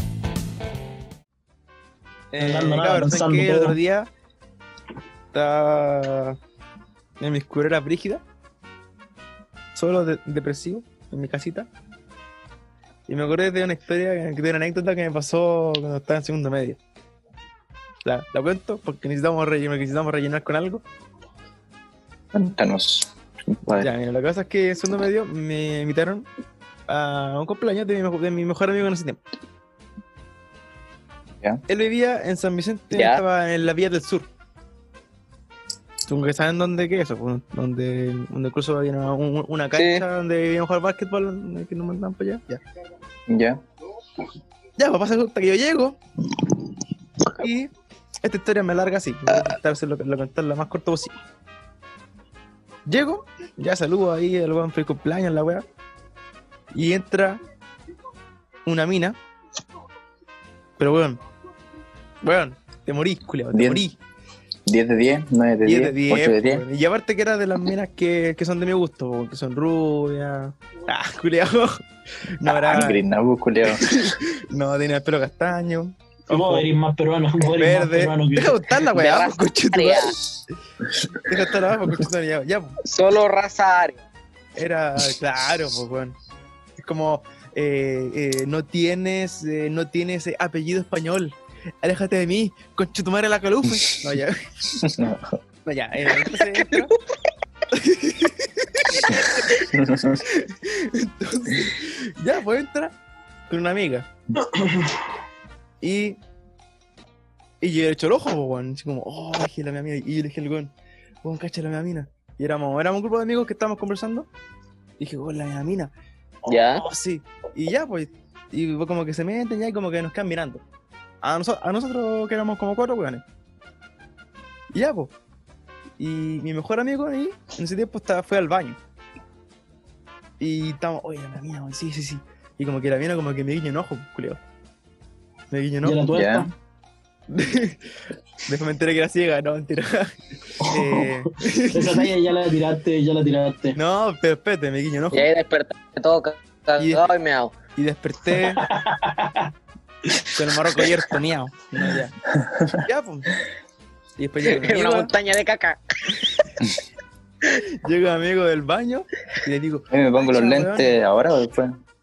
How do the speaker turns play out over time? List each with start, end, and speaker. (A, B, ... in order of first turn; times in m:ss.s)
0:02.3-0:04.1 A
0:02.4-0:03.8 B
0:05.3-0:06.4 A
0:07.2-0:08.2 A
0:09.7-0:11.7 A
0:13.1-0:16.8 A
0:18.0-0:20.8 A
0:22.3-0:23.1 C
0:23.6-0:23.9 C
0:23.8-0:26.3 A
0:26.9-0:29.2 A
0:31.7-0:34.3 A
0:32.9-0:33.2 D
0:36.0-0:42.6 A
0:39.7-0:40.0 D
0:43.3-0:43.6 C
0:44.8-0:46.5 A
0:47.3-0:47.7 A
0:48.2-0:51.2 A
0:52.9-0:55.6 A
0:56.7-0:57.4 A
0:58.6-0:59.2 A
1:00.8-1:01.2 A
1:02.2-1:04.0 A
1:03.5-1:03.8 C
1:04.7-1:06.6 C
1:05.6-1:11.8 A
1:12.4-1:13.0 A
1:12.4-1:14.2 C
1:13.7-1:16.7 A
1:16.3-1:18.8 B
1:17.6-1:20.2 A
1:18.9-1:20.2 D
1:20.8-1:21.2 C
1:21.2-1:22.8 A
1:22.8-1:24.0 D
1:24.6-1:26.2 A
1:26.8-1:34.4 A
1:34.8-1:35.4 C
1:35.6-1:36.9 A
1:36.3-1:37.0 D
1:37.7-1:39.2 A
1:39.1-1:40.2 C
1:40.3-1:42.9 A
1:43.5-1:44.1 A
1:44.4-1:45.0 B
1:45.8-1:46.2 A
1:47.6-1:54.3 A
1:55.0-1:55.9 A
1:56.4-2:00.6 A
1:56.5-1:56.8 D
2:01.2-2:03.2 A
2:04.7-2:05.1 A
2:06.0-2:08.8 A
2:10.4-2:14.4 A
2:15.5-2:16.0 A
2:15.8-2:16.5 B
2:16.1-2:16.5 C
2:17.3-2:17.8 A
2:18.4-2:22.1 A
2:20.6-2:23.8 B
2:23.7-2:25.3 A
2:25.1-2:27.6 D
2:26.8-2:27.0 A
2:27.7-2:28.6 A
2:28.6-2:29.5 B
2:30.3-2:32.2 A
2:32.4-2:32.7 C
2:32.8-2:33.3 A
2:34.2-2:35.1 A
2:34.5-2:35.8 D
2:37.6-2:41.0 A
2:39.9-2:41.8 C